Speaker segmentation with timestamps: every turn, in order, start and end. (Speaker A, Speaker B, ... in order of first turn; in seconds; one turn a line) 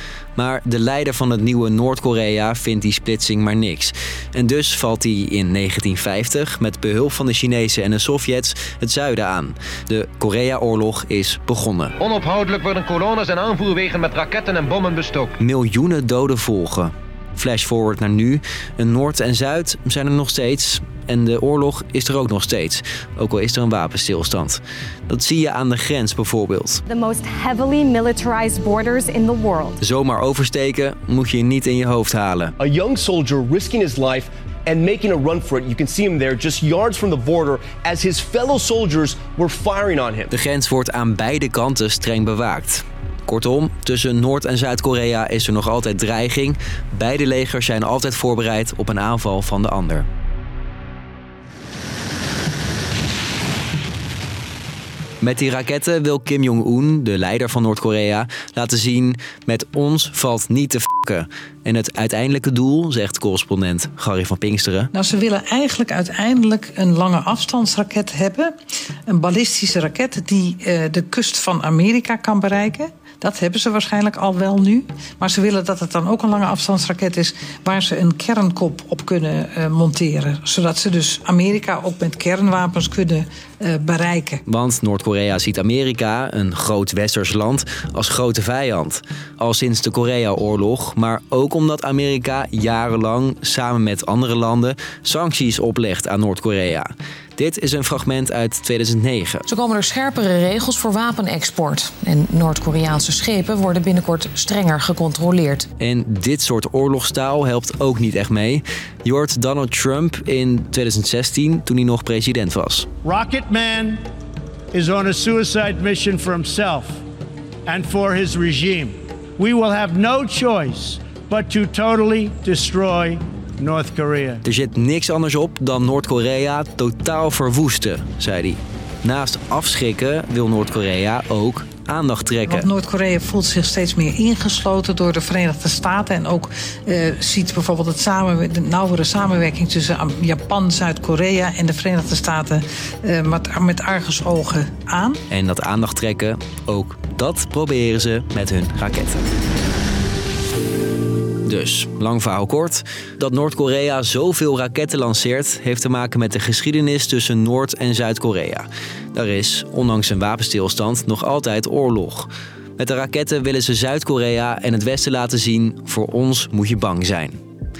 Speaker A: 0.3-11.9
Speaker B: 12.0-15.3
Speaker A: 15.4-26.8
Speaker C: 26.9-29.8
Speaker A: 29.8-32.5
Speaker D: 32.6-40.3
Speaker A: 40.3-50.0
Speaker A: 55.2-64.9
Speaker E: 64.9-68.5
Speaker E: 69.1-84.4
Speaker A: 84.5-99.5
Speaker F: 99.5-105.6
Speaker A: 105.8-112.9
Speaker G: 113.0-114.0
Speaker G: 114.7-117.0
Speaker G: 117.7-124.4
Speaker A: 124.4-132.7
Speaker E: 132.4-145.2
Speaker A: 145.3-149.2
Speaker A: 151.4-167.4